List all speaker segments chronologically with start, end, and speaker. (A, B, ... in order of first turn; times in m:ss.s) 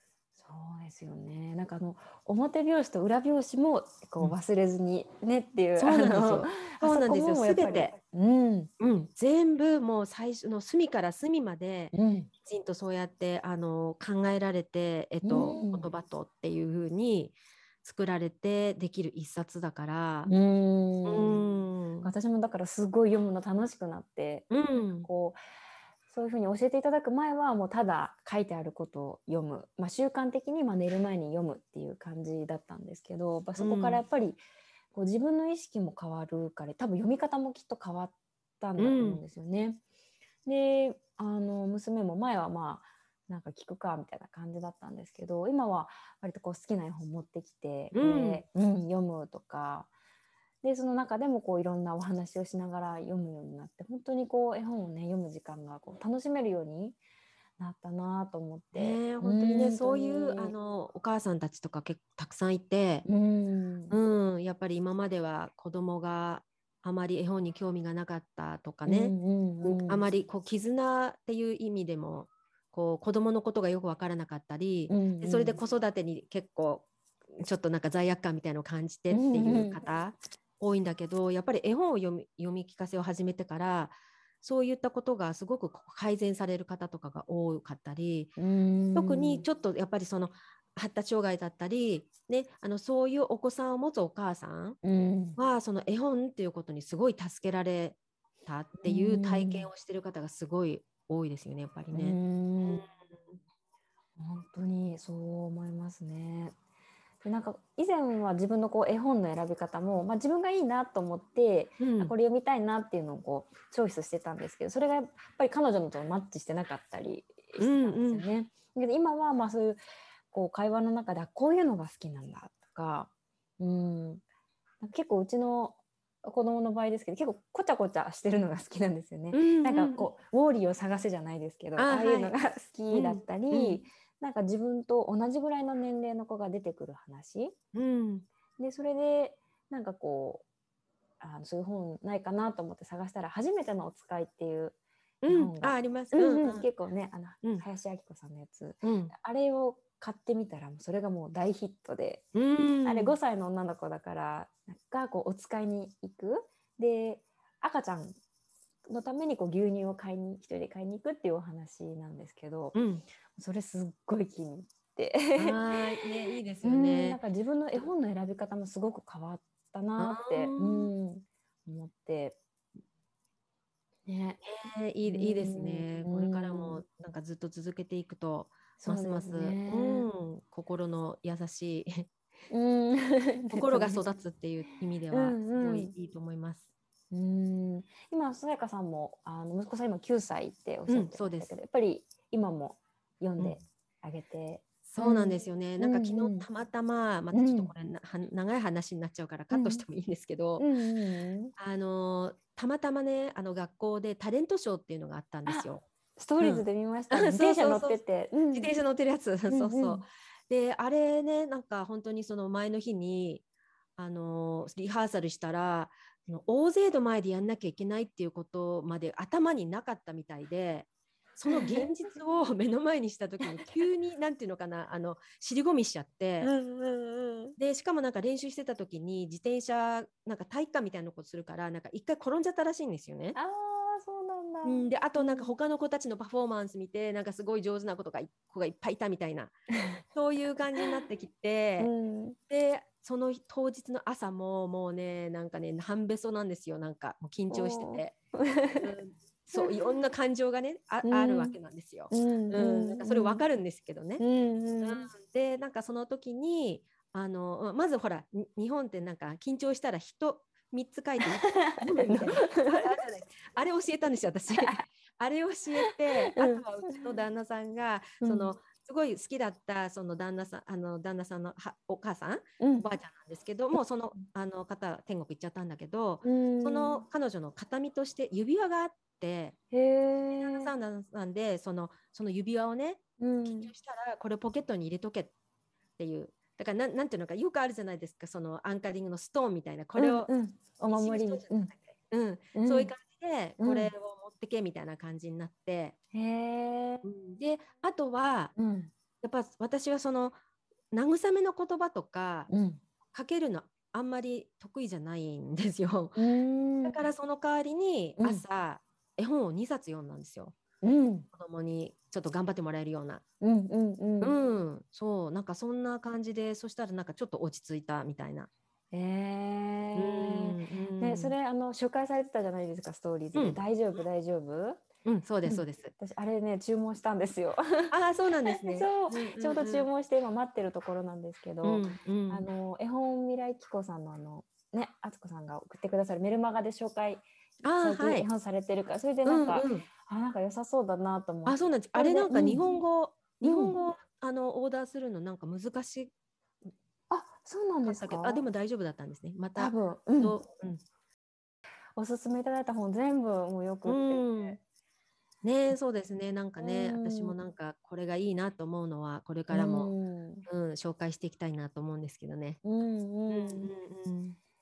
0:00.4-0:08.7 A
0:05.8-0:07.9 B
0:08.8-0:11.9 B
0:11.9-0:12.3 A
0:12.4-0:20.3 B
0:15.2-0:15.9 A
0:20.3-0:21.4 A
0:21.0-0:22.1 B
0:22.0-0:25.4 A
0:24.5-0:25.1 B
0:26.1-0:34.4 A
0:33.6-0:34.0 B
0:34.9-0:39.8 A
0:38.8-0:39.2 B
0:40.4-0:49.9 A
0:47.9-0:48.4 B
0:50.6-0:57.0 A
0:57.6-1:00.5 A
0:58.7-1:03.1 B
1:03.0-1:04.0 A
1:03.9-1:28.3 B
1:08.8-1:10.0 A
1:14.9-1:15.6 A
1:19.1-1:19.8 A
1:28.4-1:29.4 A
1:28.9-1:34.8 B
1:34.8-1:35.4 A
1:35.4-1:43.4 B
1:38.8-1:39.7 A
1:41.9-1:42.8 A
1:44.2-1:46.5 A
1:47.2-1:59.8 A
1:51.8-1:52.1 B
1:57.6-1:58.2 B
2:00.3-2:04.2 A
2:04.8-2:17.6 A
2:09.3-2:10.1 B
2:11.8-2:12.3 B
2:12.9-2:13.8 B
2:17.7-2:18.2 B
2:18.6-2:20.4 A
2:21.2-2:32.2 A
2:25.2-2:26.6 B
2:28.8-2:29.1 B
2:32.3-2:33.2 B
2:32.8-2:38.2 A
2:38.8-2:42.8 A
2:42.7-2:43.0 B
2:43.3-2:46.1 A
2:45.4-2:47.2 B
2:46.6-2:52.4 A
2:50.0-2:50.9 B
2:54.0-2:54.4 A
2:54.4-3:02.1 B
2:55.0-2:56.8 A
2:58.8-3:00.1 A
3:02.5-3:04.1 A
3:03.5-3:06.7 B
3:05.1-3:05.9 A
3:07.1-3:16.4 A
3:10.9-3:11.5 B
3:14.8-3:20.6 B
3:17.3-3:17.7 A
3:19.5-3:19.8 A
3:20.6-3:21.5 A
3:21.6-3:25.8 B
3:25.4-3:28.8 A
3:26.4-3:28.0 B
3:28.5-3:33.4 B
3:29.5-3:30.0 A
3:34.0-3:46.5 B
3:41.5-3:42.1 A
3:43.4-3:43.8 A
3:46.4-3:47.6 A
3:47.6-3:53.4 B
3:53.3-3:55.5 A
3:54.6-3:59.6 B
4:00.1-4:01.9 B
4:01.8-4:02.4 A
4:02.5-4:08.1 B
4:07.5-4:08.9 A
4:08.8-4:14.2 B
4:11.0-4:11.6 A
4:12.1-4:13.4 A
4:14.2-4:15.1 A
4:14.8-4:39.6 B
4:21.2-4:22.8 A
4:25.8-4:27.0 A
4:28.2-4:28.6 A
4:32.6-4:33.0 A
4:36.2-4:37.0 A
4:39.7-4:40.7 A
4:40.4-4:45.3 B
4:43.2-4:43.7 A
4:46.0-4:50.3 B
4:50.0-4:51.7 A
4:50.9-4:56.0 B
4:52.5-4:52.9 A
4:53.6-4:53.9 A
4:56.1-4:57.0 A
4:57.0-4:58.5 B
4:58.6-4:58.9 A
4:59.2-5:00.4 B
5:00.9-5:02.5 B
5:02.5-5:02.8 A
5:03.1-5:06.2 B
5:06.2-5:07.0 A
5:06.8-5:10.6 B
5:08.2-5:08.4 A
5:10.8-5:11.3 A
5:11.3-5:13.2 B
5:13.4-5:14.4 A
5:14.2-5:18.5 B
5:18.9-5:24.8 A
5:19.9-5:21.3 B
5:23.3-5:23.6 B
5:25.0-5:25.9 B
5:25.4-5:27.9 A
5:27.9-5:29.9 B
5:28.4-5:37.2 A
5:31.6-5:32.5 B
5:37.6-5:38.2 B
5:37.7-5:42.8 A
5:39.2-5:39.9 B
5:41.4-5:46.1 B
5:43.4-5:43.8 A
5:47.1-5:48.4 A
5:47.8-5:50.8 B
5:49.6-5:50.4 A
5:52.0-5:54.6 A
5:53.8-5:54.6 B
5:55.4-5:59.9 B
5:56.6-5:57.4 A
5:59.5-6:00.5 A
6:00.4-6:02.6 B
6:02.6-6:03.7 A
6:03.3-6:04.4 B